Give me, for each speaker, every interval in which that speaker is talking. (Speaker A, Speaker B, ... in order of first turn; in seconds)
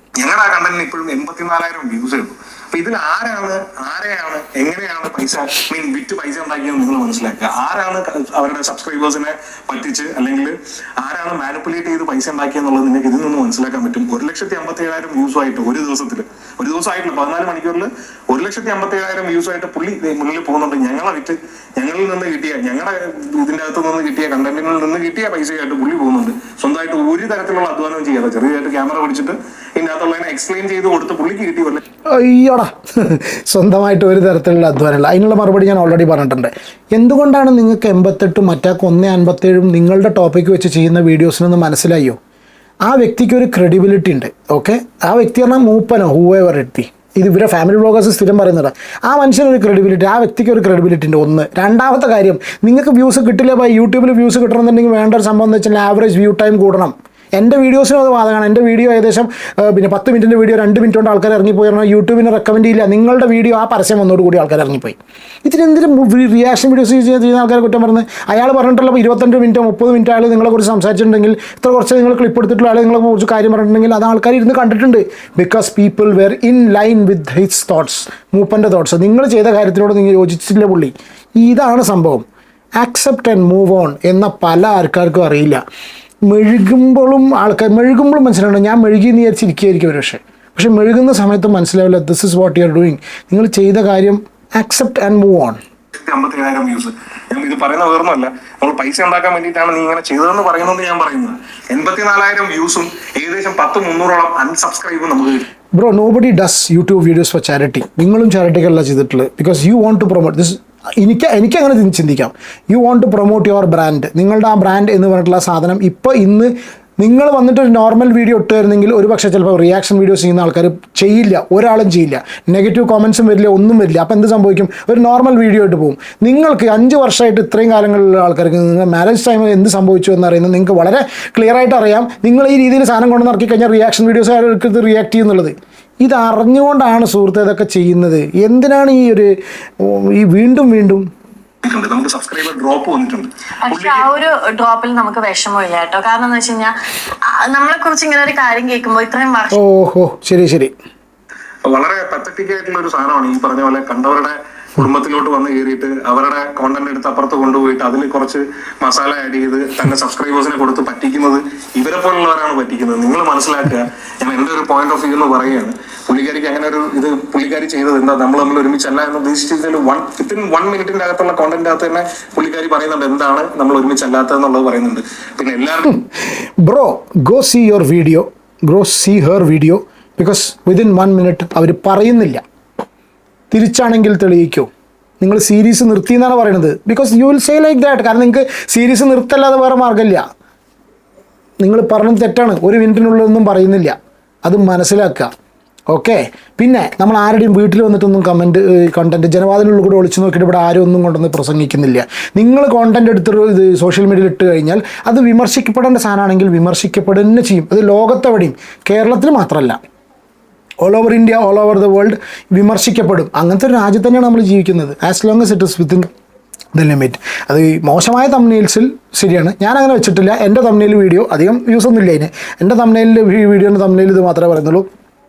Speaker A: 0.2-31.8, 96.0-105.4, 141.6-144.1, 151.7-176.0
Speaker B: 32.1-42.2, 42.8-82.2, 82.8-85.6, 86.2-95.6, 105.7-141.1, 149.5-150.7, 175.8-182.4, 183.5-184.7, 185.2-190.2, 191.6-195.3, 195.9-209.8, 210.8-216.1, 216.7-224.8
Speaker C: 143.6-146.7, 147.3-149.6